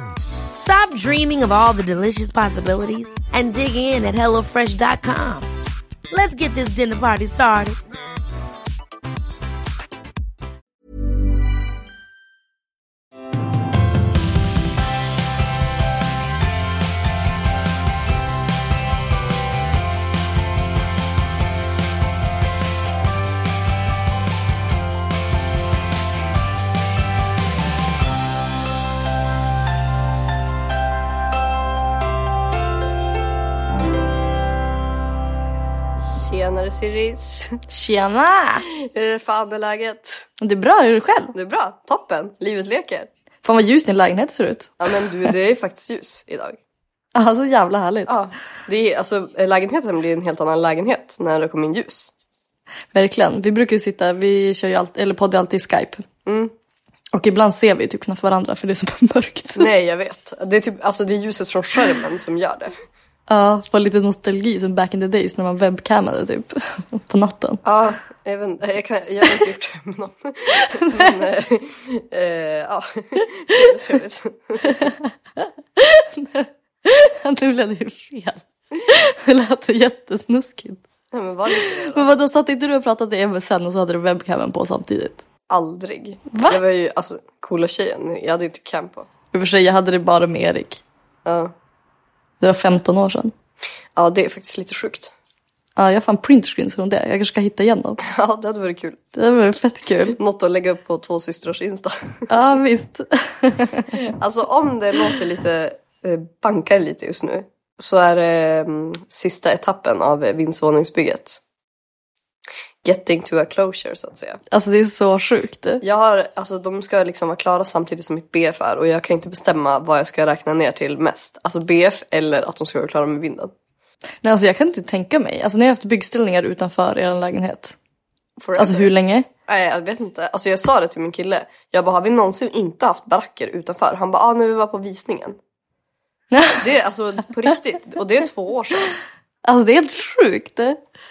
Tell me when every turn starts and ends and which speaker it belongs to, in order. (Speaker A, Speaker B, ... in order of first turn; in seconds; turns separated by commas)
Speaker A: 0.6-5.5, Speaker A: 6.1-7.8, Speaker B: 36.0-37.6, Speaker C: 37.7-38.7, Speaker B: 38.7-40.2, Speaker C: 40.4-41.3, Speaker B: 41.3-43.1, Speaker C: 43.4-44.8, Speaker B: 44.8-46.6, Speaker C: 47.1-48.1, Speaker B: 48.1-52.1, Speaker C: 52.9-56.0, Speaker B: 56.2-56.5, Speaker C: 57.1-59.7, Speaker B: 59.6-62.7, Speaker C: 63.3-67.6, Speaker B: 67.6-74.9, Speaker C: 70.7-71.0, Speaker C: 74.7-80.8, Speaker B: 81.1-82.1, Speaker C: 81.5-85.2, Speaker B: 85.5-89.1, Speaker C: 86.3-86.6, Speaker C: 89.3-90.8, Speaker B: 91.2-91.5, Speaker C: 92.4-93.3, Speaker B: 94.0-95.1, Speaker C: 95.8-98.0, Speaker B: 98.0-99.0, Speaker C: 99.1-100.2, Speaker B: 100.2-102.3, Speaker C: 102.3-104.0, Speaker B: 104.0-111.4, Speaker B: 112.8-114.4, Speaker C: 114.5-115.8, Speaker B: 115.8-123.5, Speaker C: 124.2-127.8, Speaker B: 128.4-128.9, Speaker C: 128.6-129.3, Speaker B: 129.5-135.4, Speaker C: 136.3-136.6, Speaker B: 136.6-138.9, Speaker C: 139.4-140.8